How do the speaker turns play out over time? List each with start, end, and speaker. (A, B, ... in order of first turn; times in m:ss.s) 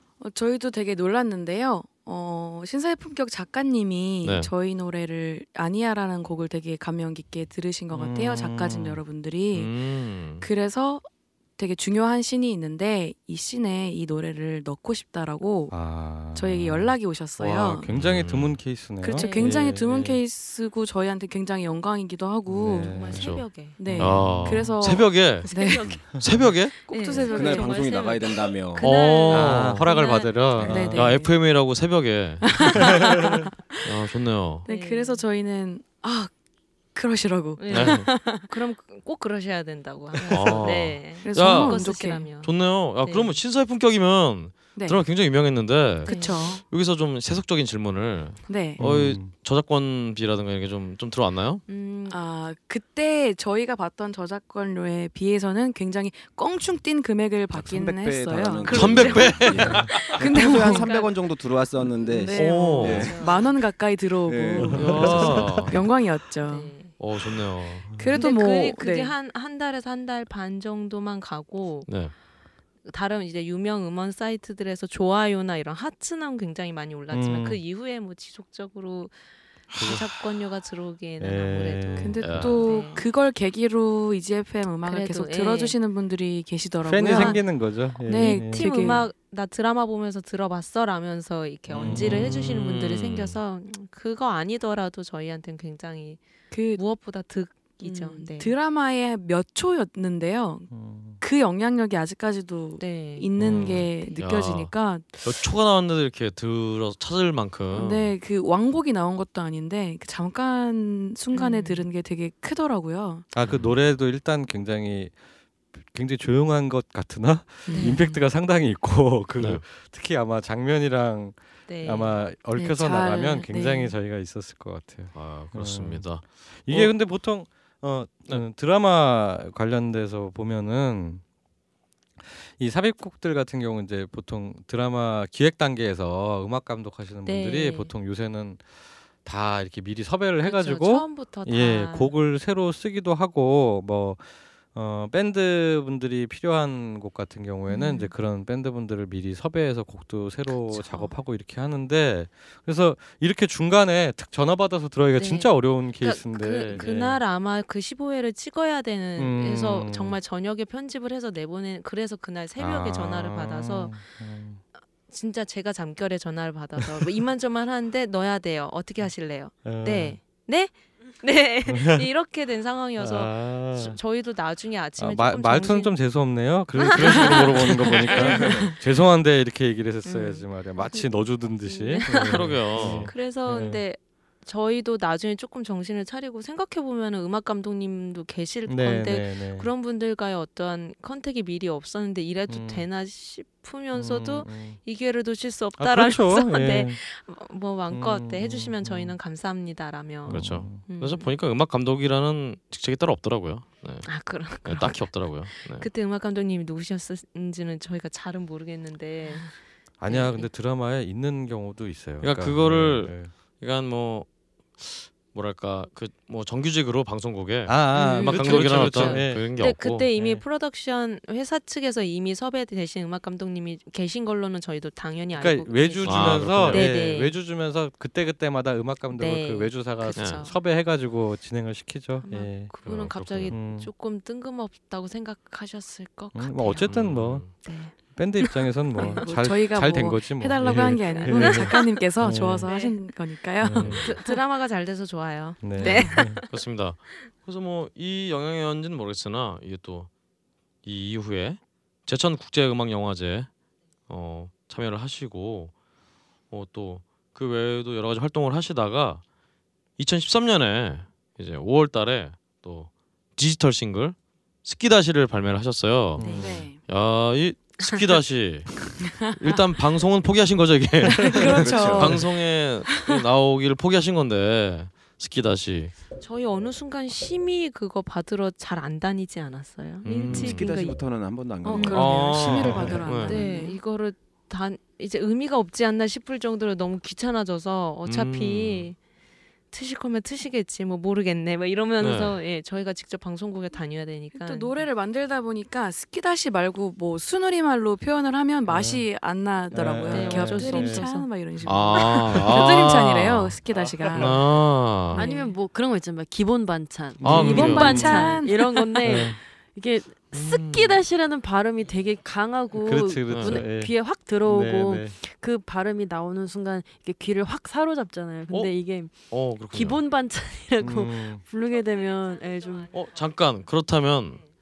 0:00.2-0:09.7 A
0:04.2-0:04.5 B
0:07.9-0:09.0 C
0:09.5-0:10.4 B
0:10.4-0:17.9 A
0:15.7-0:20.2 C
0:17.9-0:18.6 B
0:19.0-0:23.1 A
0:19.1-0:19.6 D
0:22.5-0:24.7 C
0:22.7-0:23.8 D
0:23.1-0:26.9 B
0:23.8-0:26.0 A
0:25.4-0:30.7 D
0:26.8-0:28.0 A
0:27.1-0:28.9 E
0:28.8-0:29.9 B
0:29.3-0:31.1 C
0:30.6-0:31.0 E
0:30.6-0:31.3 A
0:30.7-0:32.8 B
0:32.4-0:33.5 A
0:33.8-0:34.6 B
0:34.6-0:36.3 A
0:34.7-0:35.2 D
0:36.9-0:38.4 A
0:37.6-0:43.4 D
0:37.7-0:38.1 B
0:40.1-0:40.6 A
0:40.3-0:41.8 B
0:41.2-0:42.3 A
0:42.4-0:51.6 B
0:44.7-0:45.0 A
0:46.0-0:46.6 A
0:46.0-0:46.4 D
0:48.5-0:48.8 A
0:48.8-0:49.3 C
0:51.7-0:52.2 D
0:52.1-0:59.1 A
0:57.5-1:03.6 E
0:58.6-1:01.1 D
0:58.7-1:00.2 B
1:00.1-1:00.9 A
1:02.0-1:06.9 A
1:02.1-1:03.5 D
1:02.3-1:03.1 B
1:04.2-1:05.8 E
1:04.7-1:05.3 C
1:04.7-1:05.9 B
1:06.4-1:06.9 D
1:07.0-1:08.0 B
1:08.0-1:09.1 A
1:08.1-1:12.1 D
1:11.8-1:12.1 B
1:12.8-1:19.2 D
1:17.1-1:17.6 C
1:19.7-1:23.0 D
1:19.8-1:20.0 C
1:21.2-1:22.6 C
1:22.0-1:29.1 A
1:22.2-1:22.7 B
1:24.8-1:25.8 D
1:26.8-1:28.6 C
1:27.1-1:27.4 D
1:28.5-1:38.5 D
1:31.7-1:33.4 B
1:31.8-1:32.6 C
1:36.5-1:36.8 A
1:37.8-1:45.4 A
1:40.7-1:41.2 C
1:42.8-1:43.3 D
1:43.4-1:43.9 C
1:43.9-1:44.2 D
1:44.2-1:48.1 B
1:47.7-1:53.3 A
1:51.3-1:51.8 D
1:53.3-1:55.2 C
1:53.4-1:53.8 B
1:55.7-2:11.2 C
1:57.6-1:58.1 A
1:57.7-1:58.2 D
1:59.4-1:59.6 B
2:01.7-2:02.2 D
2:02.5-2:03.9 A
2:05.1-2:07.0 B
2:12.4-2:37.2 C
2:17.2-2:17.9 D
2:20.4-2:22.2 D
2:27.7-2:28.1 D
2:30.7-2:31.2 D
2:35.2-2:44.0 D
2:39.2-2:40.2 C
2:42.6-2:44.6 C
2:45.1-2:56.1 D
2:49.6-2:50.2 C
2:51.6-2:52.1 C
2:53.0-2:54.0 C
2:55.0-3:03.8 C
2:56.8-2:58.7 D
2:57.0-2:58.2 B
2:58.3-2:58.6 E
3:00.0-3:21.3 D
3:02.2-3:03.1 B
3:08.6-3:09.7 C
3:12.5-3:12.9 C
3:13.9-3:14.8 C
3:15.8-3:17.0 C
3:17.9-3:19.2 C
3:20.3-3:25.9 B
3:20.3-3:20.8 C
3:24.0-3:30.5 D
3:30.0-3:33.3 C
3:32.2-3:40.0 B
3:37.6-3:39.5 C
3:37.9-3:47.4 D
3:40.1-3:40.4 C
3:45.3-3:53.9 C
3:46.0-3:46.9 B
3:49.1-3:50.6 D
3:50.2-3:50.4 B
3:52.2-3:56.9 D
3:52.8-3:53.6 B
3:56.3-4:02.7 C
3:56.8-3:57.5 B
3:57.6-3:59.3 D
3:59.0-4:04.4 A
4:01.0-4:01.9 D
4:02.6-4:03.1 D
4:03.6-4:04.0 C
4:03.8-4:04.1 B
4:03.8-4:06.5 D
4:05.6-4:06.4 C
4:05.8-4:10.1 B
4:10.8-4:13.5 B
4:14.1-4:15.7 B
4:16.5-4:19.2 B
4:20.0-4:35.9 B
4:26.2-4:26.6 D
4:26.2-4:26.8 A
4:29.0-4:29.6 A
4:31.1-4:32.3 A
4:31.4-4:32.3 E
4:36.2-4:41.0 D
4:40.0-4:40.7 B
4:40.3-4:43.4 E
4:41.6-4:43.8 A
4:41.6-4:42.1 D
4:41.9-4:43.4 B
4:43.2-4:49.0 D
4:48.0-4:48.9 B
4:49.7-4:54.8 D
4:52.0-4:52.4 B
4:54.3-5:04.4 A
4:58.7-4:59.1 C
4:59.7-5:01.0 C
5:00.1-5:01.3 D
5:01.6-5:05.2 B
5:05.1-5:22.9 F
5:05.1-5:05.5 D
5:07.2-5:08.3 C
5:07.2-5:08.0 B
5:07.4-5:09.1 A
5:07.6-5:09.3 D
5:09.0-5:09.4 C
5:10.3-5:11.0 B
5:12.8-5:15.2 C
5:13.3-5:13.7 B
5:18.5-5:20.0 B
5:20.8-5:21.4 C
5:22.9-5:24.4 B